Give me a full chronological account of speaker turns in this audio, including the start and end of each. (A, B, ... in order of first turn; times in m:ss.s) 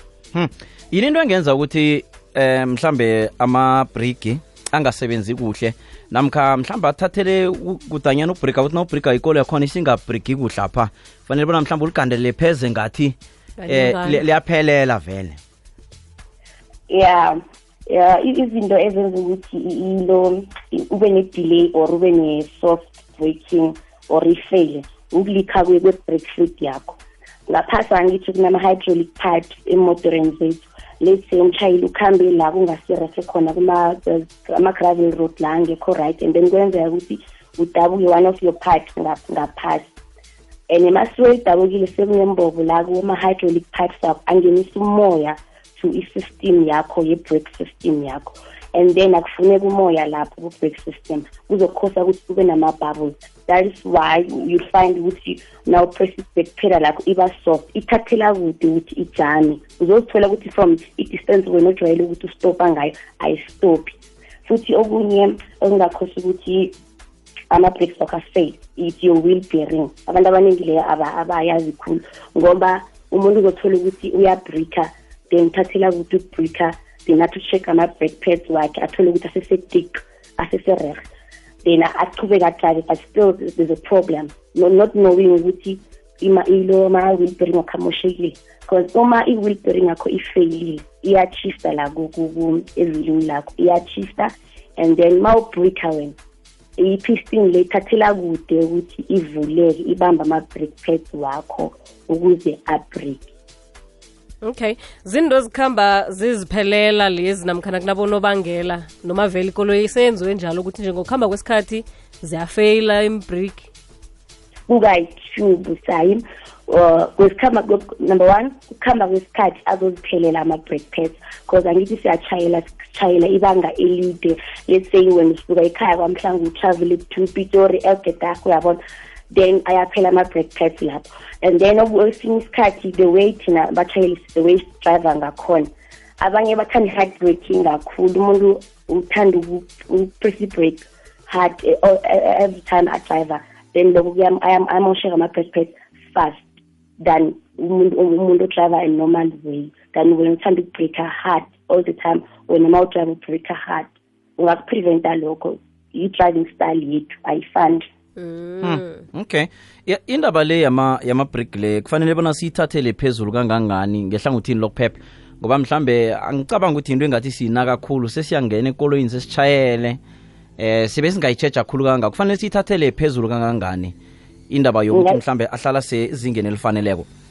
0:00.3-0:13.2 A
0:13.6-0:14.2 B
0:13.7-0:15.4 A
0:16.9-0:39.9 C
0:40.7-1:06.7 C
1:07.5-1:21.1 C
1:21.6-1:36.2 C
1:36.8-1:43.3 C
1:44.4-1:53.7 B
1:54.7-2:08.8 C
2:09.3-2:26.4 C
2:27.0-2:37.8 C
2:38.2-2:39.0 B
2:38.6-2:50.0 A
2:50.6-2:53.9 A
2:54.5-2:57.0 A
2:54.9-2:55.2 C